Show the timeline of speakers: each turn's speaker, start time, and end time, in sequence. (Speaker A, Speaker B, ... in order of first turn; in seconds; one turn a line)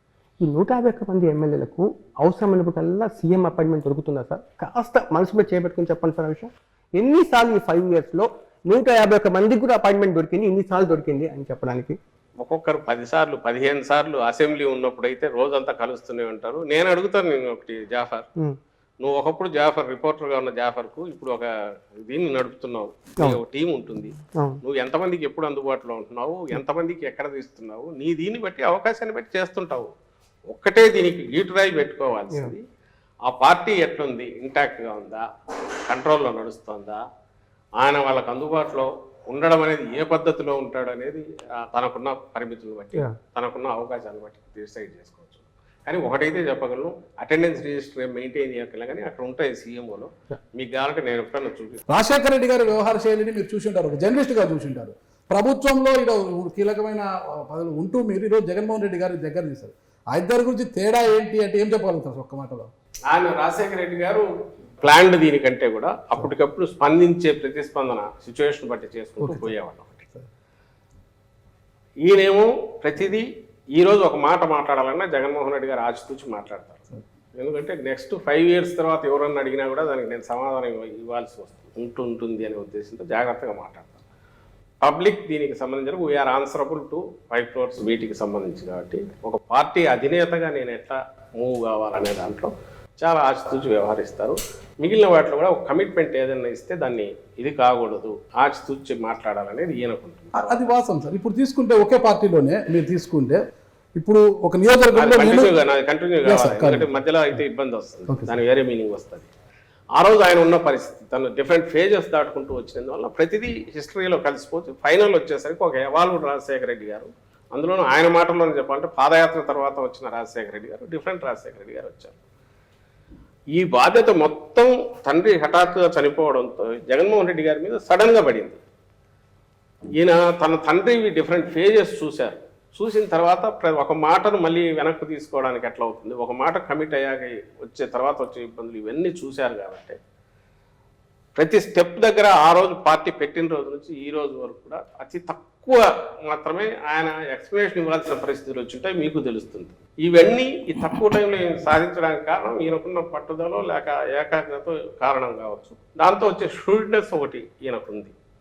Speaker A: 0.4-12.0
Speaker B: 12.4-18.2
Speaker B: 19.0-21.5
Speaker B: 22.0-29.9
Speaker A: 24.3-24.6
Speaker B: 30.5-32.6
Speaker B: 33.3-35.2
Speaker B: 35.9-37.0
Speaker B: 37.8-51.8
Speaker C: 51.9-62.7
Speaker B: 63.1-64.3
Speaker B: 64.8-70.0
Speaker C: 69.2-69.5
Speaker B: 72.0-73.2
Speaker B: 73.8-84.0
Speaker B: 84.8-100.5
Speaker C: 100.3-103.4
Speaker C: 104.0-105.5
Speaker B: 104.9-109.3
Speaker C: 106.2-106.9
Speaker C: 108.1-108.3
Speaker B: 110.0-122.2
Speaker B: 123.5-128.6
Speaker B: 129.9-140.0
Speaker B: 141.3-158.1